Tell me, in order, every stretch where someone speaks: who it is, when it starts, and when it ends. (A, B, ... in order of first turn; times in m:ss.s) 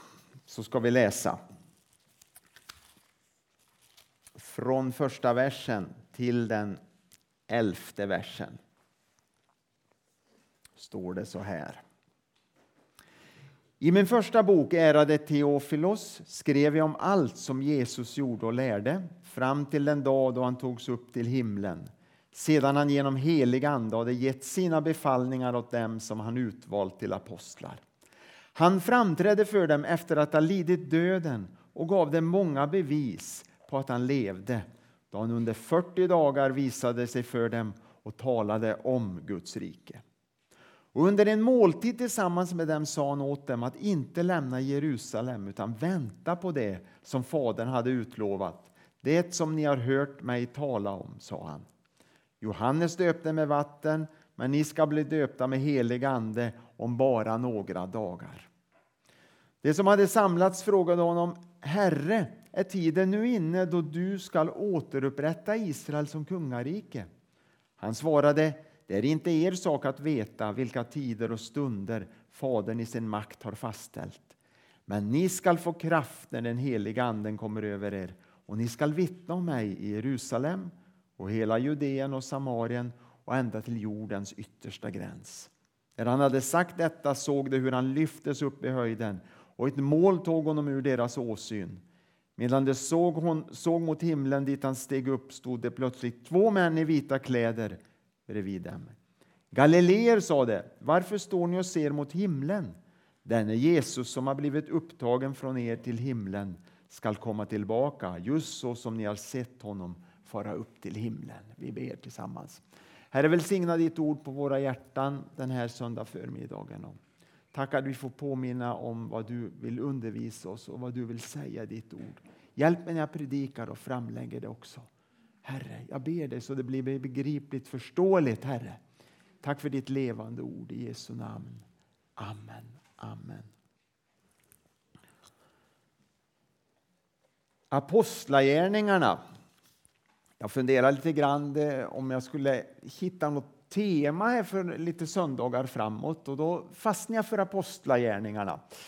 0:00.5-0:01.4 A
0:04.4-0:06.8 A
0:07.5-0:08.6 A
0:10.8-0:11.8 A
0:13.8-0:27.8 A
0:28.5-0:40.0 A
0:40.9-0:51.6 A
0:52.4-0:58.5 A
0:59.6-1:07.1 A
1:07.8-1:14.3 A
1:14.9-1:31.8 A
1:32.4-1:38.9 A
1:39.5-1:42.7 A
1:43.2-1:57.0 A
1:57.5-2:04.9 A
2:05.4-2:08.8 A
2:09.4-2:11.6 A
2:12.2-2:13.5 A
2:17.7-2:19.2 A
2:20.4-2:28.6 A